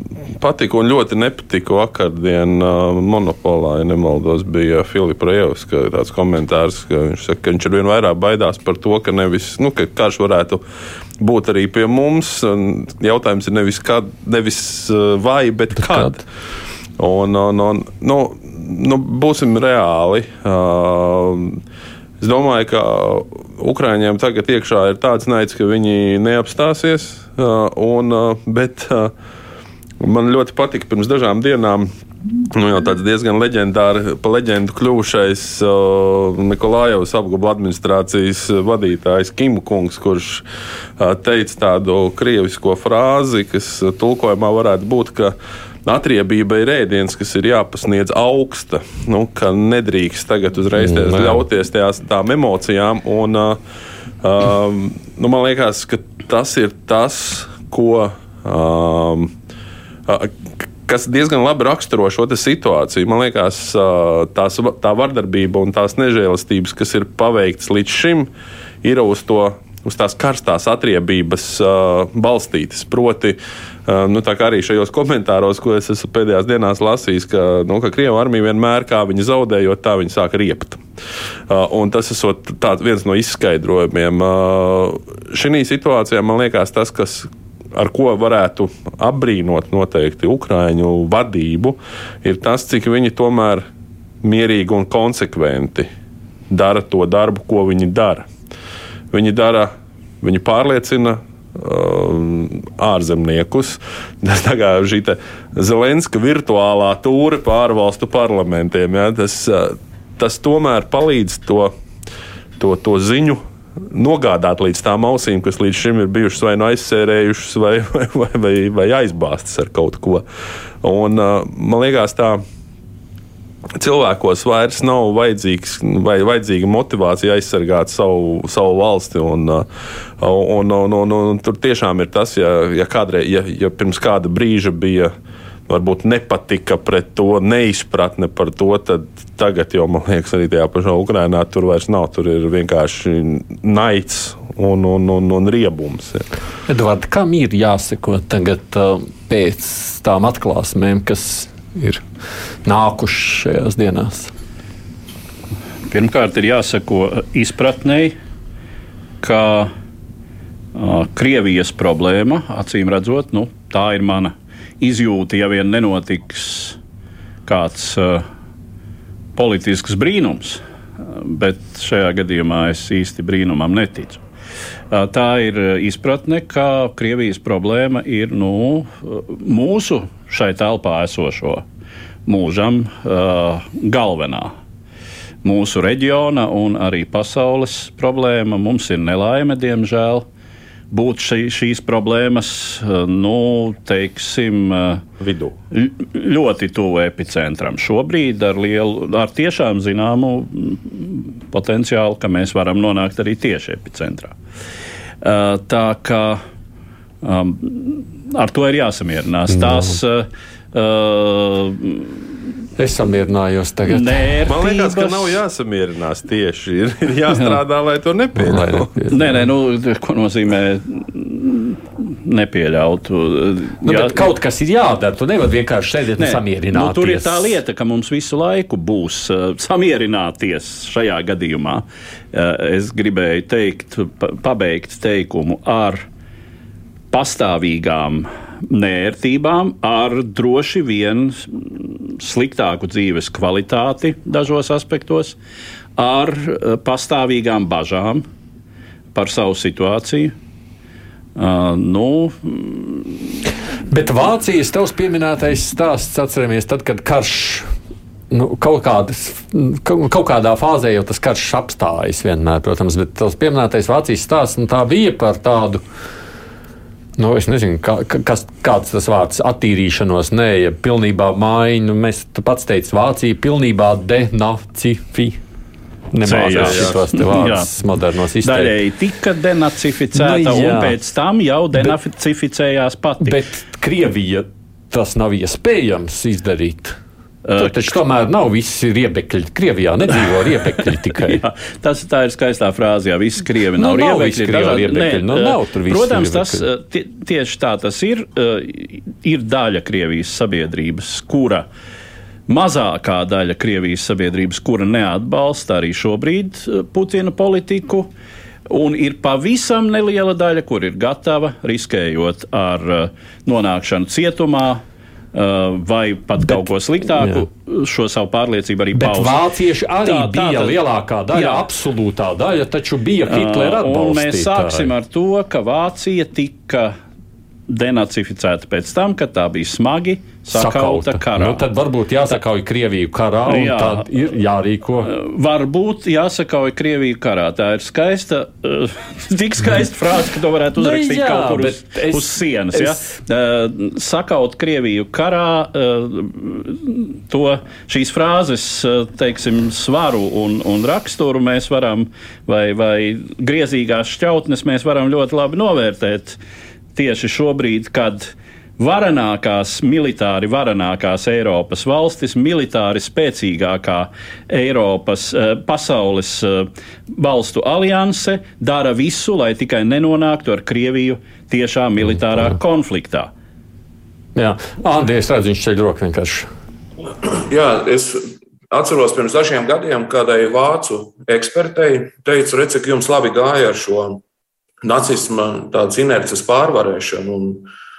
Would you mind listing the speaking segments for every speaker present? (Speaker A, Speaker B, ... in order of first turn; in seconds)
Speaker A: 0.3-10.6, 11.2-16.2, 17.0-21.6, 22.2-29.1, 30.0-31.9, 32.5-40.4, 41.0-53.6, 54.2-59.3, 60.1-68.3, 68.8-80.8, 81.5-93.7, 94.2-95.9, 96.5-98.3, 99.1-111.7, 112.6-120.2, 120.8-122.4, 123.8-129.7, 130.2-135.1, 135.7-146.2, 195.2-195.5, 214.4-219.1, 276.4-277.0
Speaker B: 51.0-51.4, 146.7-152.0, 152.6-154.3, 212.8-214.6, 218.4-219.1, 223.8-227.5, 253.9-257.7, 258.3-265.8, 267.2-275.4, 276.1-278.7, 280.1-280.9, 283.2-287.0, 287.6-291.4, 293.8-296.7, 318.9-324.9, 330.5-335.1, 340.8-343.0, 374.3-376.5
Speaker C: 155.9-158.1, 159.2-159.7, 160.7-166.8, 167.4-168.2, 169.3-174.2, 174.9-181.6, 182.3-184.5, 185.4-190.3, 190.9-195.0, 195.7-204.3, 205.2-206.4, 207.2-212.2, 213.9-215.4, 219.1-224.3, 226.2-236.1, 237.1-245.3, 246.0-248.2, 249.1-250.3, 251.3-253.4, 276.2-277.7, 278.4-283.4, 287.4-287.9, 290.8-301.7, 302.5-308.1, 308.7-314.8, 315.3-319.4, 320.0-320.8, 321.3-321.6, 323.3-326.9, 327.7-331.6, 333.5-334.1, 335.1-356.4, 356.9-373.3
Speaker D: 377.2-384.2, 384.8-387.7